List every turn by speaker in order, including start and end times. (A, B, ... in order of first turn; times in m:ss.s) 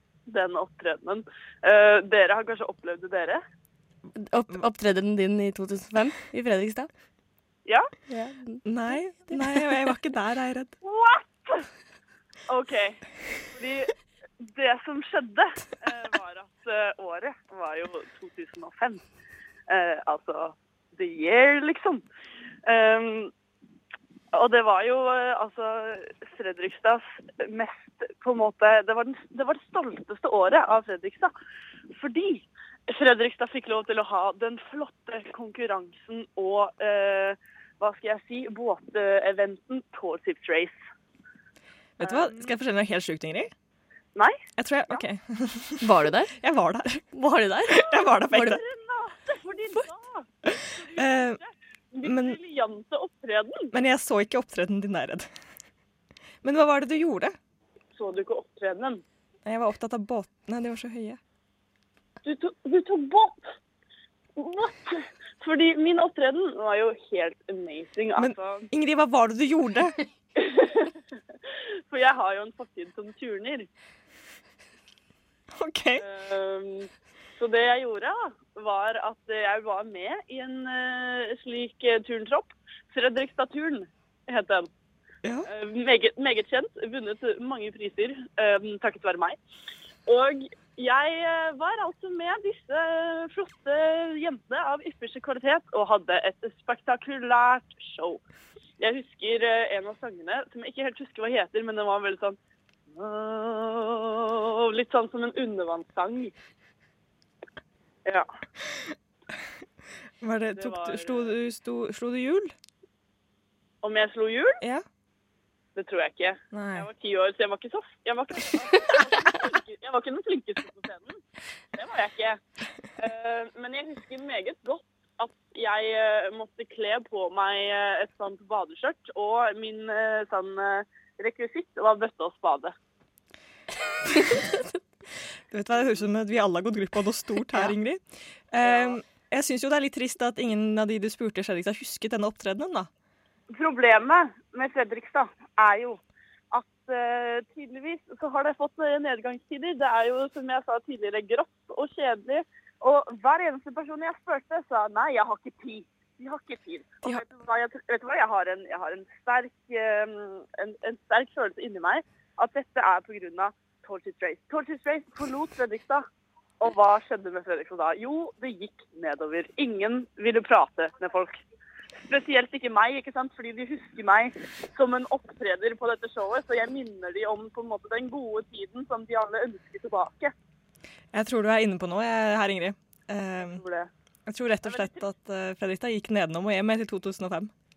0:00.3-0:03.4 A
0:04.1-0:06.9 B
0:07.6-0:07.9 A
0:08.1-0:09.4 B
0:08.6-0:10.8 C
0:10.8-0:11.7 A
0:12.5-0:19.0 A
0:19.7-0:22.0 A
0:22.6-0:23.3 A
0:24.3-0:31.3 A
0:31.9-0:40.8 A
0:42.0-0:43.5 C
0:42.0-0:42.5 A
0:44.6-0:47.0 C
0:45.8-0:46.3 B
0:47.1-0:48.6 B
0:47.7-0:48.6 C
0:48.3-0:53.7 A
0:50.5-0:51.4 C
0:52.0-0:52.4 C
0:53.7-0:55.3 C
0:56.4-0:57.4 C
0:58.0-0:59.0 A
0:59.5-1:01.2 C
1:02.2-1:03.4 A
1:04.4-1:08.7 A
1:08.2-1:10.0 C
1:10.4-1:11.0 A
1:11.5-1:13.7 A
1:15.5-1:16.0 C
1:16.0-1:24.7 A
1:25.5-1:29.4 A
1:30.1-1:38.2 A
1:38.8-1:42.4 A
1:42.9-1:46.3 A
1:50.2-1:52.5 C
1:50.6-1:51.3 A
1:53.8-1:54.6 A
1:55.8-2:01.2 A
1:56.5-1:56.9 C
2:01.8-2:02.4 A
2:03.0-2:12.8 A
2:14.2-2:14.5 B
2:15.5-2:18.0 C
2:18.5-2:22.9 C
2:18.6-2:19.0 A
2:23.5-2:26.0 A
2:26.5-2:46.1 A
2:46.6-2:51.4 A
2:52.1-3:00.3 A
3:01.1-3:03.6 C
3:03.4-3:03.9 A
3:04.3-3:07.5 C
3:04.6-3:05.0 A